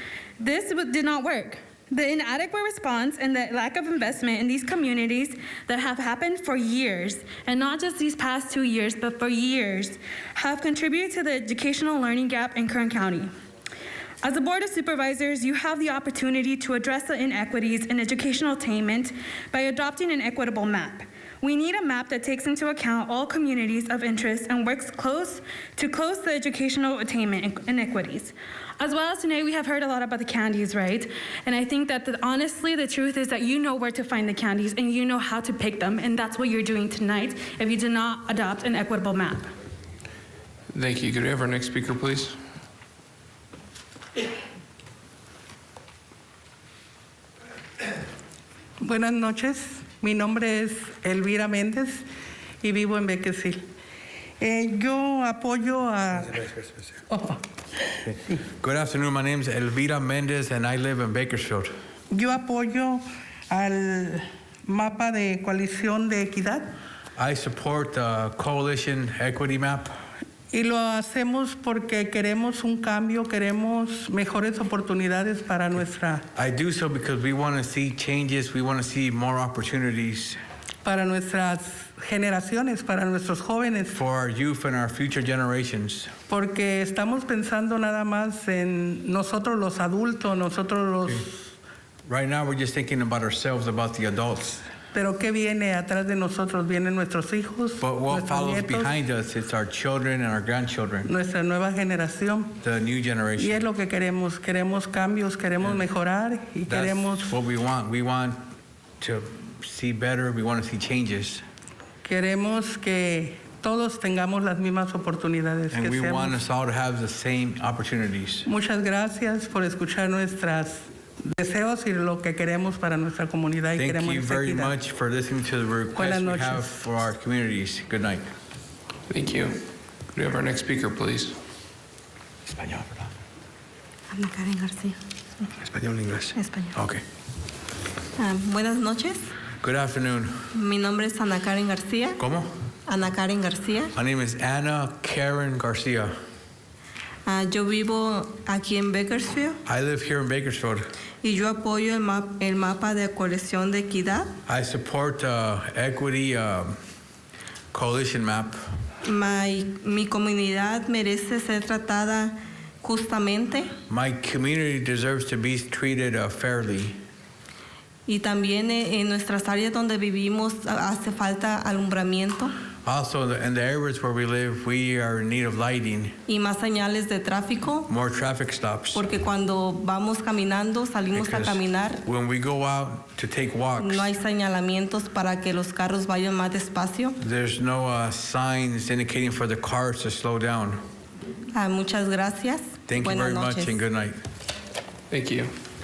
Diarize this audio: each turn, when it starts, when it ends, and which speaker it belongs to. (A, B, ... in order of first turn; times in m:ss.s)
0:00.4-0:13.3 A
0:14.2-0:39.5 A
0:40.7-0:42.4 B
0:48.8-0:52.0 C
0:52.6-0:53.6 C
0:54.4-0:56.5 C
0:57.1-0:57.4 C
0:58.6-1:01.7 D
1:02.1-1:06.7 C
1:07.2-1:09.9 D
1:10.5-1:16.2 C
1:16.4-1:20.4 D
1:20.8-1:24.0 C
1:23.9-1:26.1 D
1:26.3-1:31.5 C
1:32.1-1:34.6 D
1:34.9-1:39.0 C
1:37.8-1:41.1 D
1:41.0-1:42.6 C
1:42.6-1:43.6 D
1:43.4-1:47.3 C
1:46.7-1:48.4 D
1:49.0-1:51.4 D
1:52.0-1:56.4 C
1:55.7-1:58.5 D
1:58.5-2:04.8 C
2:03.8-2:08.3 D
2:06.0-2:06.8 C
2:09.1-2:09.6 B
2:10.1-2:11.4 B
2:12.5-2:12.9 D
2:14.1-2:15.0 E
2:15.7-2:17.0 D
2:16.4-2:16.7 E
2:18.2-2:19.2 E
2:19.6-2:20.4 D
2:20.5-2:22.2 E
2:22.2-2:22.5 D
2:22.9-2:23.9 E
2:24.0-2:26.1 D
2:27.3-2:29.6 E
2:29.7-2:30.8 D
2:31.2-2:34.3 E
2:34.5-2:36.8 D
2:37.7-2:38.6 D
2:39.0-2:43.7 E
2:43.9-2:47.0 D
2:48.1-2:52.5 E
2:52.8-2:56.2 D
2:56.3-2:57.9 E
2:57.9-2:59.0 D
2:58.9-3:02.0 E
3:01.1-3:04.1 D
3:03.8-3:07.2 E
3:07.2-3:10.8 D
3:11.5-3:13.8 E
3:12.9-3:14.2 D
3:15.1-3:15.5 B